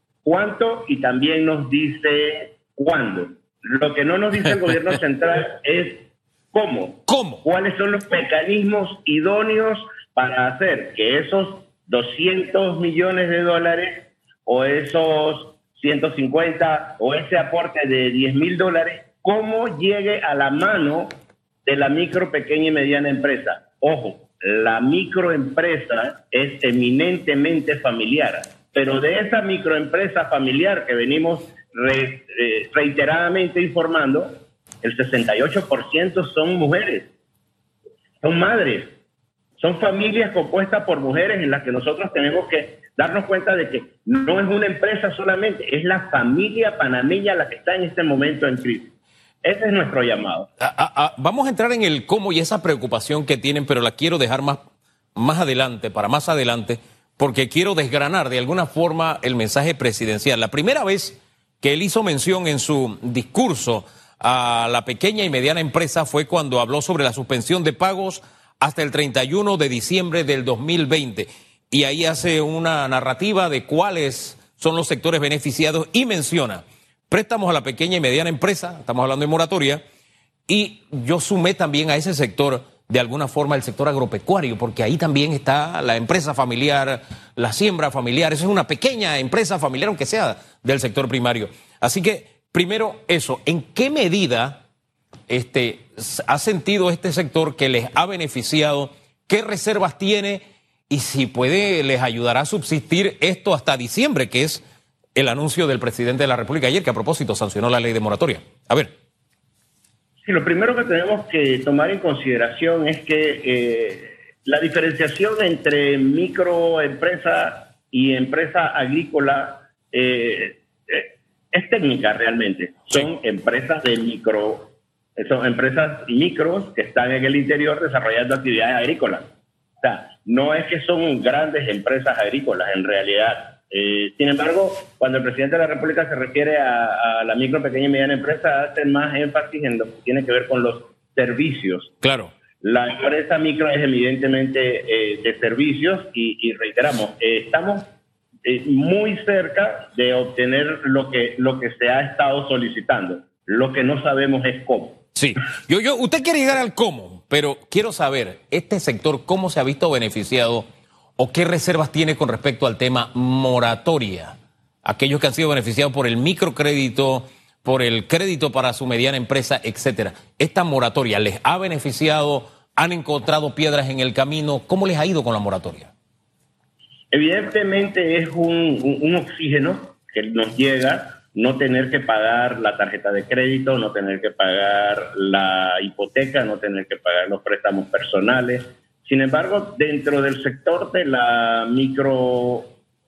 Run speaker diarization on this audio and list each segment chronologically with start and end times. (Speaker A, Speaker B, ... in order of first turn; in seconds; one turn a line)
Speaker A: 0.2-37.1
Speaker B: 7.1-7.4
Speaker A: 38.2-38.9
Speaker A: 39.6-48.9
Speaker A: 49.4-50.5
Speaker B: 50.6-54.6
Speaker B: 55.1-79.8
Speaker B: 80.5-94.6
Speaker B: 95.3-104.6
Speaker B: 105.1-108.9
Speaker A: 110.2-129.3
Speaker A: 129.8-141.9
Speaker B: 142.0-142.3
Speaker A: 142.6-147.9
Speaker A: 148.4-155.0
Speaker B: 155.1-160.7
Speaker B: 161.2-175.9
Speaker A: 177.1-192.7